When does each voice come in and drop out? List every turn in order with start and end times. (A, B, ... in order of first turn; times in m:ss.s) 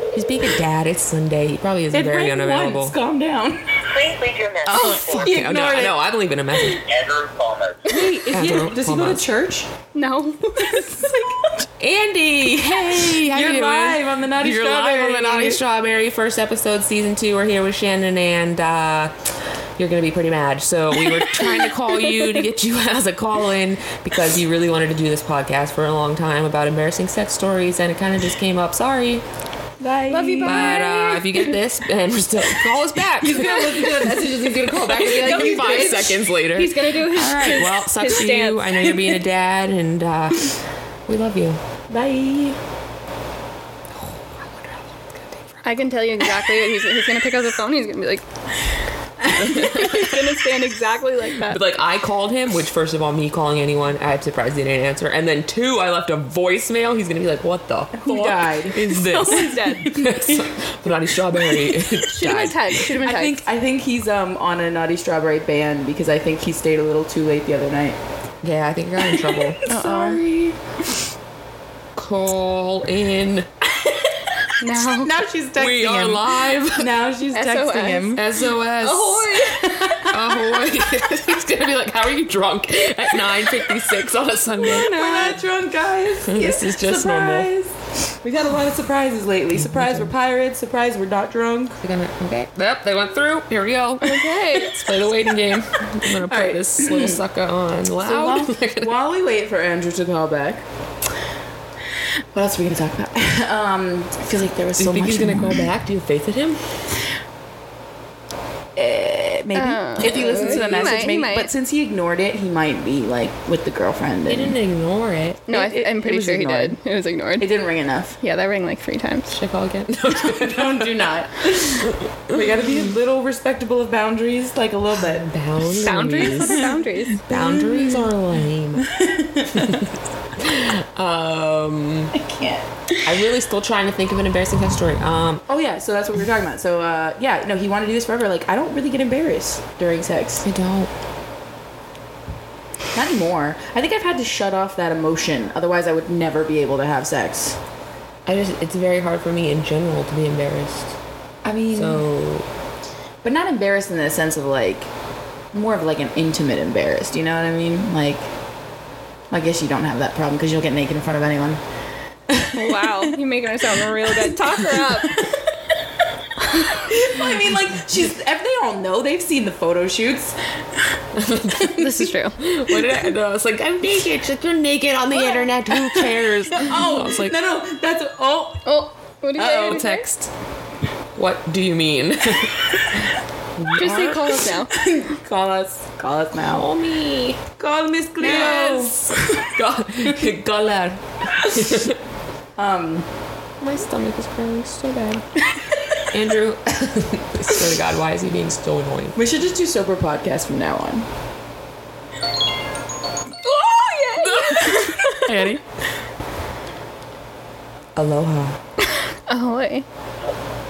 0:00.1-0:03.0 A
0:01.9-0:03.8 B
0:03.8-0:05.4 C
0:04.6-0:06.0 B
0:04.8-0:06.8 A
0:06.6-0:06.8 B
0:06.9-0:08.0 C
0:07.9-0:09.7 B
0:07.9-0:08.2 D
0:08.3-0:09.2 A
0:09.9-0:11.1 D
0:10.6-0:11.7 B
0:11.8-0:29.2 A
0:12.7-0:15.6 B
0:29.8-0:30.8 B
0:30.1-0:31.5 D
0:30.4-0:36.9 A
0:33.2-0:36.1 B
0:33.4-0:38.9 D
0:37.1-0:37.7 B
0:37.5-0:41.6 A
0:41.9-0:42.6 B
0:44.0-0:45.4 A
0:45.6-0:48.2 D
0:49.3-0:51.6 D
0:49.4-0:50.4 A
0:51.4-1:02.9 A
0:58.0-1:00.4 B
0:58.9-1:00.0 D
1:02.0-1:03.4 D
1:03.0-1:08.0 B
1:08.4-1:09.6 A
1:09.1-1:11.0 B
1:09.7-1:10.2 D
1:11.9-1:13.5 A
1:14.6-1:15.1 D
1:15.0-1:18.2 B
1:15.6-1:16.9 A
1:17.3-1:18.2 D
1:18.1-1:19.5 A
1:18.8-1:19.8 D
1:19.6-1:20.6 B
1:20.0-1:25.4 A
1:24.6-1:31.8 B
1:26.2-1:27.5 A
1:29.6-1:30.1 A
1:31.8-1:38.9 A
1:34.0-1:34.8 D
1:36.1-1:37.2 B
1:38.0-1:40.6 B
1:42.3-1:45.7 B
1:44.8-1:46.6 A
1:48.8-1:54.6 B
1:49.6-1:51.5 D
1:50.0-1:51.0 A
1:54.3-1:55.5 A
1:55.5-1:57.5 D
1:55.5-1:56.8 B
1:57.4-1:58.2 B
1:58.2-1:59.4 D
1:59.3-2:01.1 A
2:00.2-2:05.3 B
2:01.8-2:02.9 A
2:05.0-2:06.7 A
2:05.8-2:07.2 D
2:06.4-2:08.1 B
2:07.3-2:08.9 A
2:08.8-2:09.9 B
2:09.5-2:12.1 A
2:12.1-2:12.7 B
2:13.0-2:15.4 A
2:15.5-2:20.4 B
2:20.4-2:20.9 A
2:22.9-2:27.6 B
2:28.2-2:31.0 A
2:31.4-2:32.0 B
2:31.7-2:32.5 A
2:33.2-2:34.9 B
2:35.5-2:38.2 B
2:39.3-2:41.6 B
2:42.3-2:43.0 B
2:42.5-2:45.3 D
2:45.1-2:45.5 B
2:46.5-2:46.8 D
2:46.5-2:50.8 B
2:51.1-2:51.8 A
2:51.5-2:51.9 B
2:51.7-2:52.4 D
2:52.4-2:57.4 A
2:55.1-2:58.7 B
2:58.6-3:00.0 D
2:59.4-3:00.0 B
2:59.7-3:00.3 A
3:01.2-3:04.4 A
3:03.7-3:04.7 D
3:04.7-3:06.7 B
3:06.5-3:07.4 A
3:07.6-3:09.5 B
3:08.2-3:09.0 D
3:08.2-3:12.0 A
3:12.6-3:13.1 B
3:13.6-3:15.3 A
3:16.1-3:19.2 A
3:19.2-3:21.1 B
3:23.4-3:25.4 D
3:24.2-3:24.9 A
3:25.2-3:25.8 B
3:28.0-3:28.6 A
3:29.3-3:29.8 D